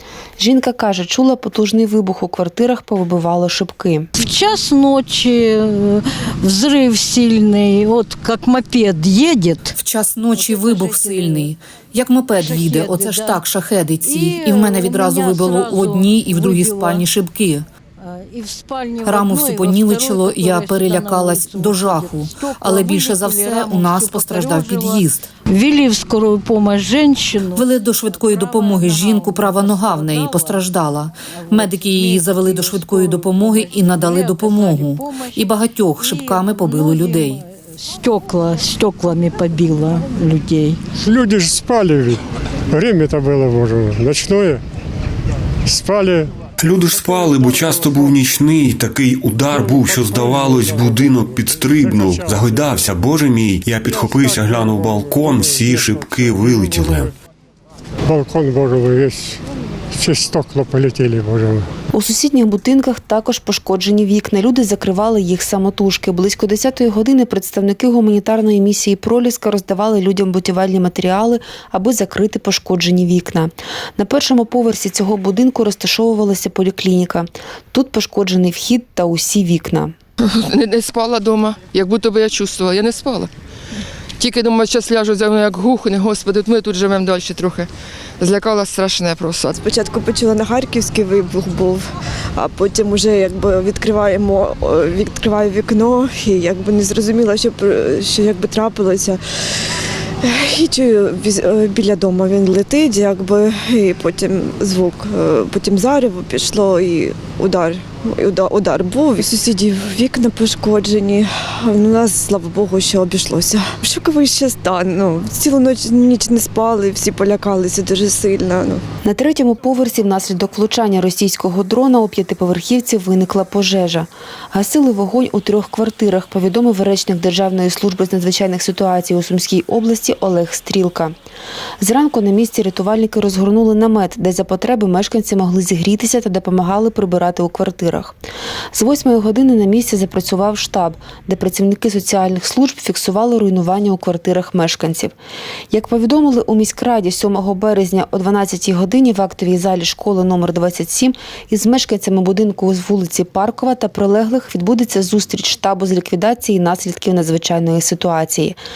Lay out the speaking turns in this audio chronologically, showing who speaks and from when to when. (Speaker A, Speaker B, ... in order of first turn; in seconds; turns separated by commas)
Speaker A: 0.4-4.1, Speaker B: 4.2-9.8, Speaker C: 9.8-17.7, Speaker B: 10.3-11.5, Speaker B: 12.4-13.4, Speaker B: 14.0-17.1, Speaker B: 18.0-30.7, Speaker C: 19.0-25.3, Speaker C: 27.5-37.4, Speaker B: 31.2-40.8, Speaker D: 41.0-44.6, Speaker D: 45.6-48.2, Speaker E: 46.6-57.1, Speaker D: 49.5-53.0, Speaker D: 53.8-57.1, Speaker D: 58.1-59.4, Speaker D: 59.9-61.7, Speaker A: 61.9-79.9, Speaker F: 80.2-83.3, Speaker F: 84.2-87.7, Speaker F: 88.2-89.6, Speaker G: 89.5-99.6, Speaker G: 100.2-118.8, Speaker A: 119.0-131.1, Speaker A: 131.8-138.2, Speaker A: 138.7-145.2, Speaker A: 145.7-158.6